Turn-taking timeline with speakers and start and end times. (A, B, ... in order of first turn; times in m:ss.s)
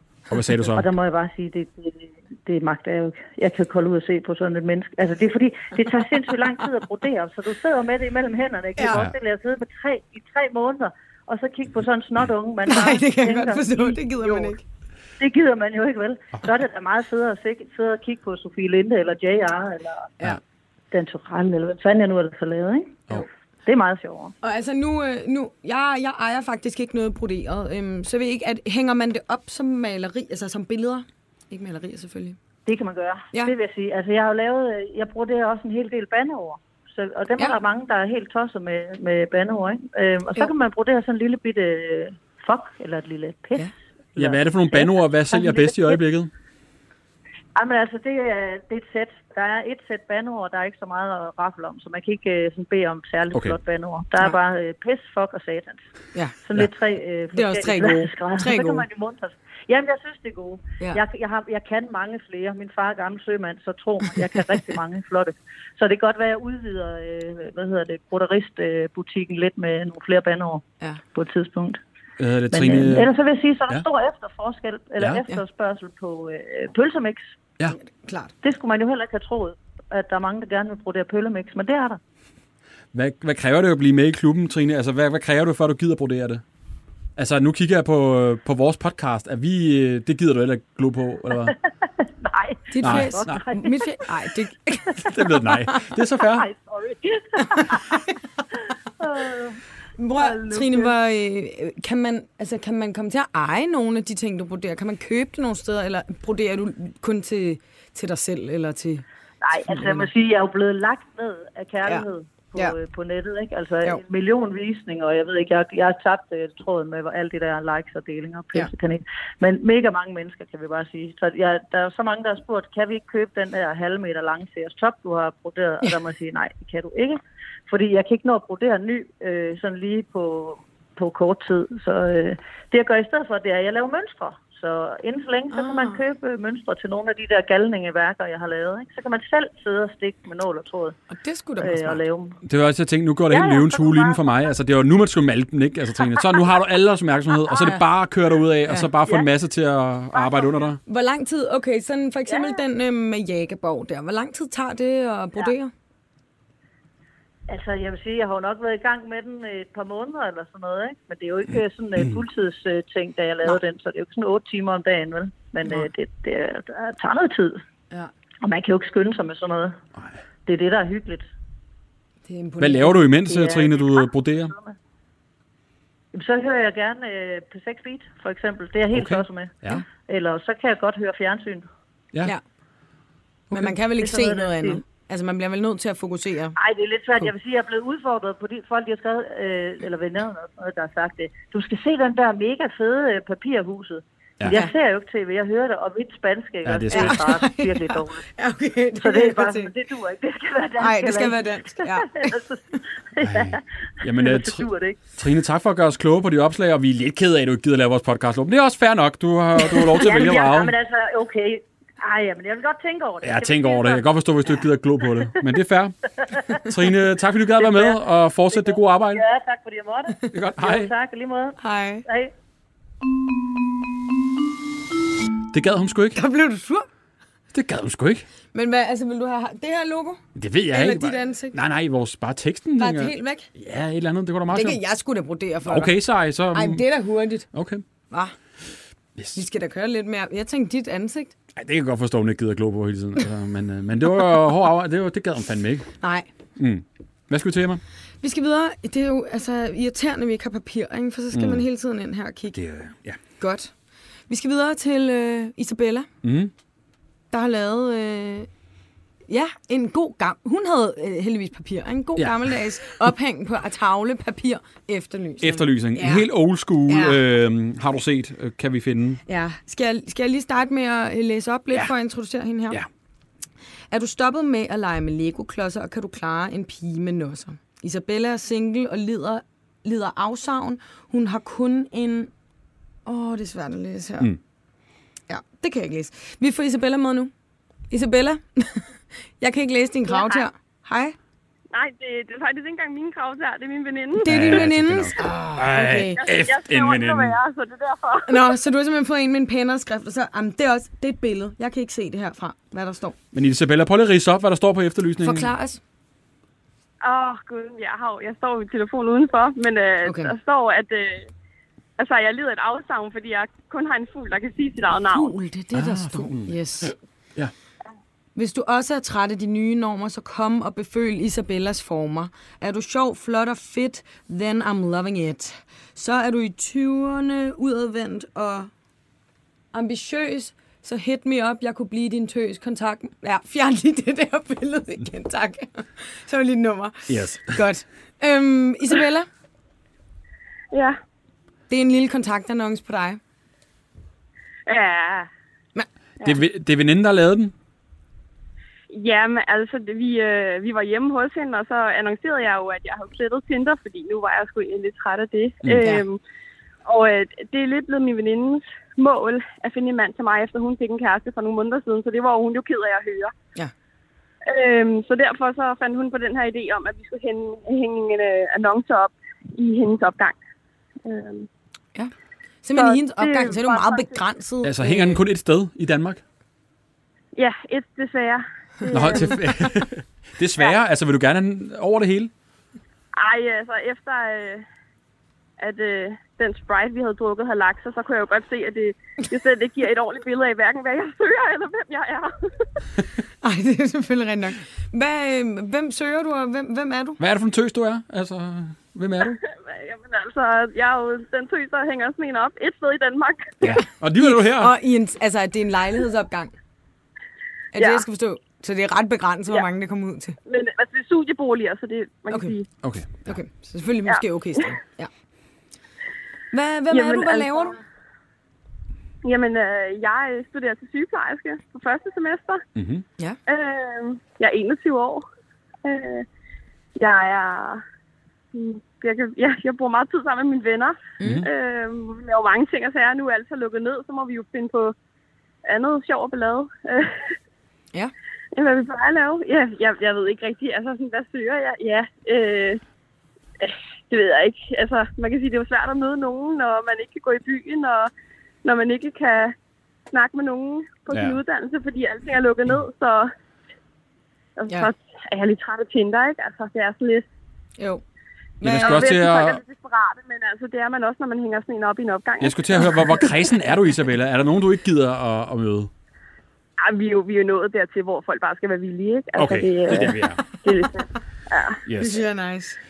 0:00.3-0:00.9 A
0:00.7-0:14.6 B
0:12.7-0:14.6 C
0:15.2-0:20.1 B
0:20.9-0:24.3 B
0:24.4-0:32.4 C
0:32.6-0:46.0 B
0:44.2-0:46.3 A
0:47.5-0:55.8 B
0:53.3-0:53.6 A
0:56.4-1:11.8 B
0:57.3-0:58.8 C
1:12.2-1:13.1 A
1:12.5-1:17.2 B
1:17.7-1:18.3 C
1:18.4-1:22.0 B
1:22.9-1:26.4 A
1:27.2-1:31.6 A
1:32.2-1:34.0 B
1:32.7-1:35.1 C
1:32.8-1:33.4 A
1:35.0-1:36.5 A
1:36.3-1:38.0 B
1:37.5-1:38.0 C
1:39.0-1:39.6 B
1:40.0-1:49.0 C
1:40.2-1:40.9 B
1:49.4-2:21.0 B
1:49.7-1:50.1 C
1:51.8-1:52.8 C
2:15.5-2:16.0 C
2:21.1-2:22.0 C
2:21.6-2:22.4 B
2:22.4-2:30.8 A
2:23.3-2:24.2 B
2:30.2-2:30.5 B
2:30.8-2:35.7 C
2:37.5-2:47.6 B
2:48.4-2:49.8 B
2:50.4-2:51.2 B
2:52.3-2:53.1 C
2:52.6-2:54.5 A
2:53.3-2:54.7 B
2:56.1-3:01.6 B
2:58.9-2:59.8 A
3:03.5-3:04.8 B
3:03.5-3:06.6 C
3:06.6-3:18.3 B
3:16.6-3:17.3 A
3:16.9-3:19.7 C
3:19.0-3:25.0 B
3:20.8-3:22.4 C
3:23.2-3:30.7 A
3:29.7-3:34.0 B
3:33.2-3:36.0 A
3:36.3-3:36.6 B
3:36.5-3:39.2 A
3:37.6-3:38.0 B
3:38.5-3:42.3 B
3:40.3-3:40.9 A
3:41.6-3:42.0 C
3:45.5-3:46.2 A
3:46.1-3:46.9 C
3:47.5-3:48.2 A
3:48.5-3:51.6 C
3:50.3-3:54.8 A
3:52.8-3:53.5 C
3:54.5-3:57.5 C
3:55.6-3:56.9 A
3:57.5-3:57.8 A
3:59.2-3:59.4 A
3:59.3-4:01.3 C
4:01.5-4:05.9 A
4:06.0-4:06.3 C
4:06.6-4:07.8 A
4:08.2-4:12.6 C
4:11.3-4:11.6 A
4:12.5-4:13.2 A
4:13.4-4:13.7 C
4:14.3-4:16.1 C
4:16.2-4:16.5 A
4:17.3-4:18.5 C
4:19.3-4:26.3 C
4:25.4-4:29.2 A
4:26.9-4:27.2 C
4:29.3-4:32.8 C
4:33.9-4:42.3 C
4:43.0-4:44.3 C
4:45.3-4:47.3 C
4:47.9-4:51.2 C
4:50.0-4:50.5 D
4:51.7-4:54.7 D
4:54.2-4:56.2 C
4:54.2-4:57.4 A
4:55.9-4:58.5 D
4:58.3-5:03.2 C
5:03.3-5:05.5 A
5:05.2-5:05.8 C
5:07.0-5:11.3 D
5:10.0-5:10.3 C
5:12.0-5:15.3 D
5:15.1-5:16.9 C
5:15.7-5:17.5 A
5:18.3-5:28.7 C
5:29.7-5:39.3 C
5:37.1-5:37.6 A
5:40.7-5:41.0 D
5:41.7-5:43.2 C
5:44.6-5:45.3 D
5:46.2-5:47.5 A
5:48.9-5:56.2 D
5:56.8-6:03.3 D
6:04.4-6:10.4 D
6:11.0-6:11.5 D
6:12.6-6:15.2 C
6:12.7-6:14.2 D
6:14.6-6:16.2 A
6:17.4-6:19.5 D
6:18.9-6:22.3 A
6:19.0-6:19.3 C
6:23.2-6:24.6 D
6:25.6-6:32.6 D
6:33.4-6:37.2 C
6:37.2-6:39.4 A
6:39.4-6:43.8 D
6:43.6-6:44.7 A
6:44.2-6:46.5 C
6:47.7-6:50.4 C
6:47.8-6:48.0 D
6:50.4-6:52.7 D
6:52.8-6:53.4 A
6:53.2-6:55.1 C
6:56.5-6:57.8 C
6:56.9-6:57.8 D
6:59.2-7:02.6 D
7:02.7-7:03.0 A
7:03.5-7:05.2 D
7:05.8-7:06.2 D
7:07.0-7:07.8 D
7:08.5-7:14.9 D
7:11.2-7:11.4 C
7:11.2-7:11.5 A
7:15.6-7:17.3 D
7:18.5-7:22.8 D
7:23.6-7:28.1 D
7:28.6-7:29.5 D
7:30.1-7:33.3 D
7:31.1-7:31.4 A
7:34.6-7:37.2 D
7:38.6-7:39.1 C
7:38.6-7:39.6 A
7:38.7-7:43.3 D
7:42.4-7:45.9 A
7:46.8-7:51.8 D
7:49.4-7:50.4 A
7:51.8-7:52.2 A
7:52.0-7:52.8 C